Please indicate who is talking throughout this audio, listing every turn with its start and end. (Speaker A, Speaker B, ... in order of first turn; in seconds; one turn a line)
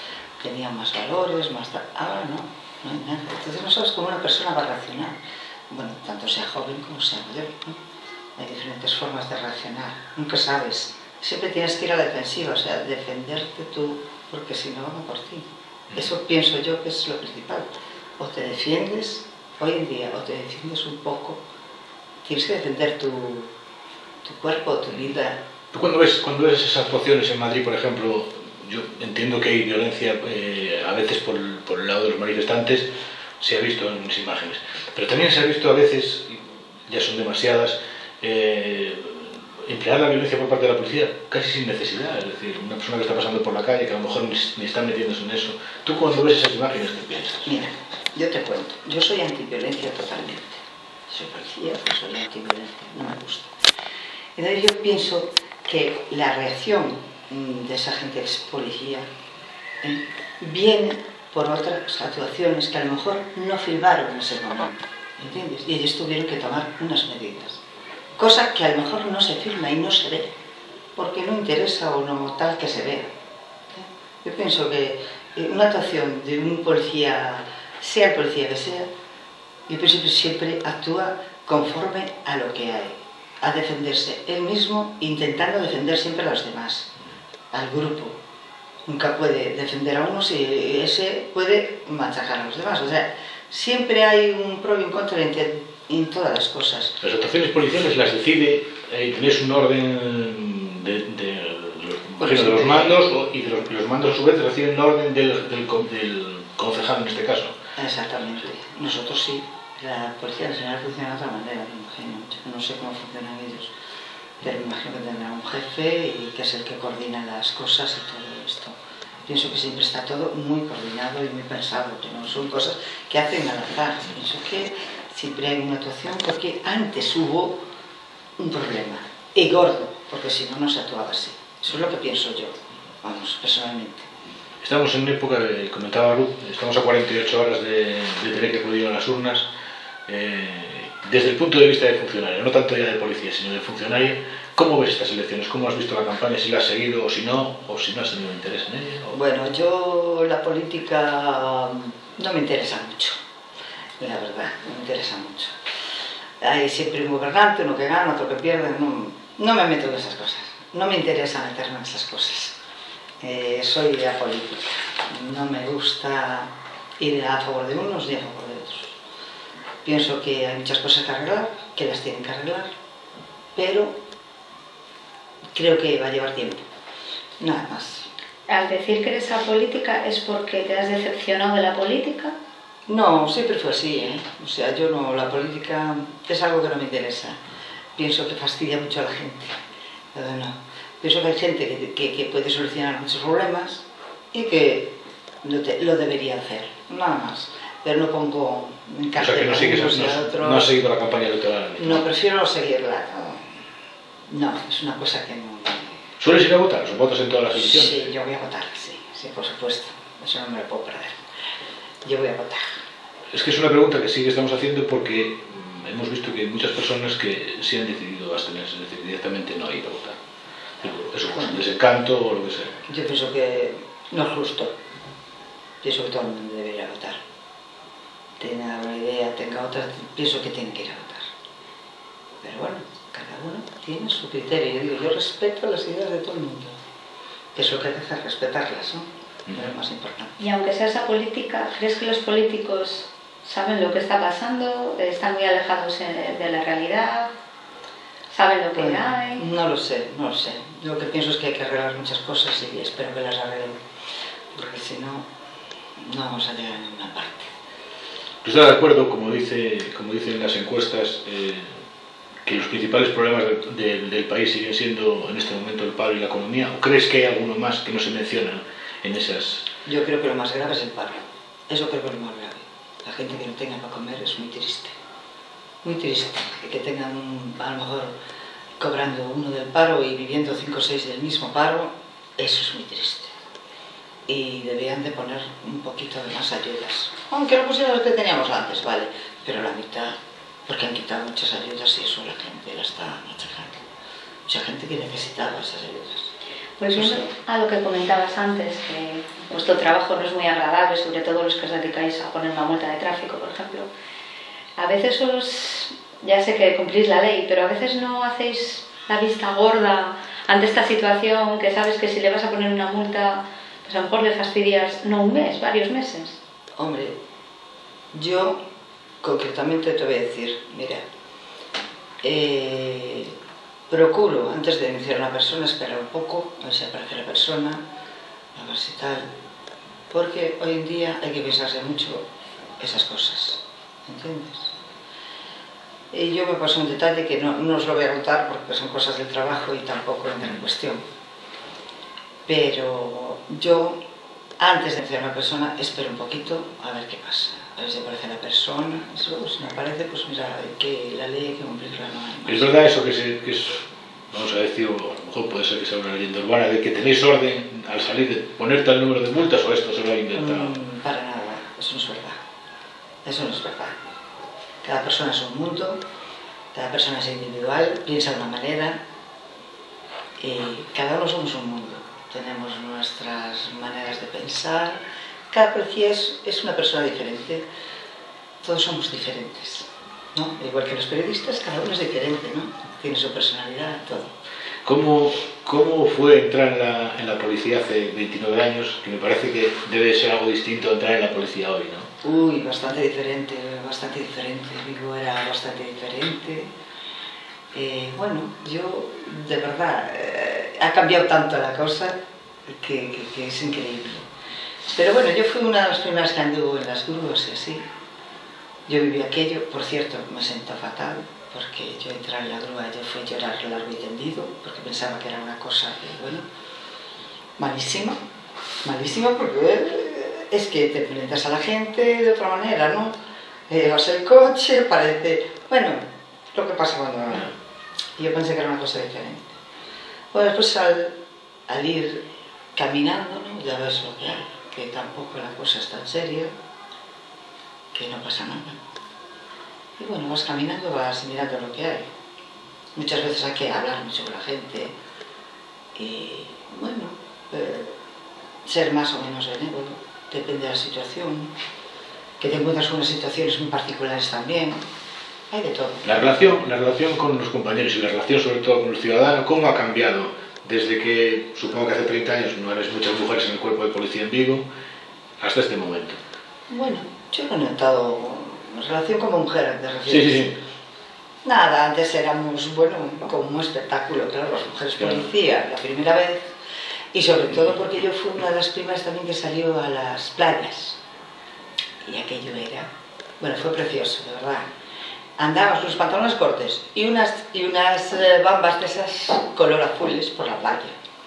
Speaker A: 0.4-5.2
Speaker A: 5.7-7.8
Speaker A: 8.4-21.4
Speaker A: 22.2-23.5
Speaker A: 24.2-25.4
Speaker B: 25.7-32.9
Speaker B: 33.4-47.5
Speaker A: 47.4-53.5
Speaker A: 54.4-59.1
Speaker A: 59.8-67.6
Speaker A: 68.2-70.3
Speaker A: 71.0-73.1
Speaker A: 73.7-78.9
Speaker A: 79.7-86.9
Speaker A: 87.5-88.2
Speaker A: 88.8-97.0
Speaker B: 97.0-107.5
Speaker A: 102.2-103.0
Speaker A: 107.8-113.7
Speaker A: 114.4-118.7
Speaker A: 119.2-127.6
Speaker A: 128.4-134.1
Speaker B: 134.6-139.5
Speaker B: 140.1-149.1
Speaker A: 149.1-153.2
Speaker A: 154.0-155.5
Speaker A: 156.4-162.6
Speaker A: 163.2-168.9
Speaker A: 169.8-172.7
Speaker A: 173.5-173.9
Speaker A: 175.5-176.6
Speaker A: 177.4-178.1
Speaker C: 178.5-182.3
Speaker A: 182.9-187.3
Speaker A: 187.9-189.5
Speaker A: 190.1-200.7
Speaker B: 199.2-202.1
Speaker A: 201.8-203.5
Speaker A: 204.3-206.0
Speaker B: 206.2-208.0
Speaker A: 207.5-211.2
Speaker A: 212.0-212.8
Speaker B: 213.3-220.2
Speaker B: 220.8-222.7
Speaker A: 222.9-224.7
Speaker A: 225.8-227.2
Speaker A: 228.4-231.2
Speaker A: 232.4-236.7
Speaker A: 237.5-240.4
Speaker C: 240.4-247.3
Speaker C: 248.3-249.4
Speaker A: 248.7-253.8
Speaker A: 254.5-255.2
Speaker A: 256.0-257.5
Speaker B: 258.4-261.7
Speaker B: 262.4-269.6
Speaker A: 269.9-274.9
Speaker A: 275.8-278.1
Speaker A: 278.8-283.3
Speaker A: 284.3-290.1
Speaker A: 290.7-293.8
Speaker A: 294.5-296.3
Speaker C: 296.8-303.9
Speaker A: 296.9-297.2
Speaker C: 304.8-316.4
Speaker A: 316.8-317.1
Speaker A: 318.1-318.6
Speaker A: 319.2-321.0
Speaker A: 322.2-323.3
Speaker A: 323.9-327.8
Speaker A: 328.5-329.3
Speaker A: 330.1-332.2
Speaker A: 332.8-334.8
Speaker A: 336.1-341.0
Speaker A: 342.5-344.0
Speaker A: 344.6-352.7
Speaker B: 352.4-360.7
Speaker A: 360.3-362.4
Speaker A: 363.2-364.0
Speaker A: 364.8-366.0
Speaker A: 366.7-369.0
Speaker A: 370.4-375.0
Speaker A: 375.5-377.6
Speaker A: 378.6-384.3
Speaker B: 384.8-392.1
Speaker A: 392.2-396.7
Speaker A: 397.7-404.2
Speaker A: 404.9-407.9
Speaker A: 408.9-416.4
Speaker A: 417.6-418.2
Speaker A: 418.8-423.1
Speaker A: 423.7-427.6
Speaker A: 428.2-429.5
Speaker A: 430.3-431.2
Speaker A: 431.7-436.5
Speaker A: 437.9-438.8
Speaker A: 440.0-442.1
Speaker A: 442.9-444.9
Speaker A: 445.9-447.9
Speaker A: 448.6-451.5
Speaker A: 452.4-454.8
Speaker A: 455.5-456.3
Speaker B: 456.0-464.6
Speaker B: 465.4-466.2
Speaker A: 466.7-470.5
Speaker B: 470.1-470.6
Speaker A: 471.4-476.5
Speaker B: 475.0-475.2
Speaker A: 477.1-481.0
Speaker A: 482.0-482.9
Speaker A: 483.4-484.7
Speaker A: 485.4-490.9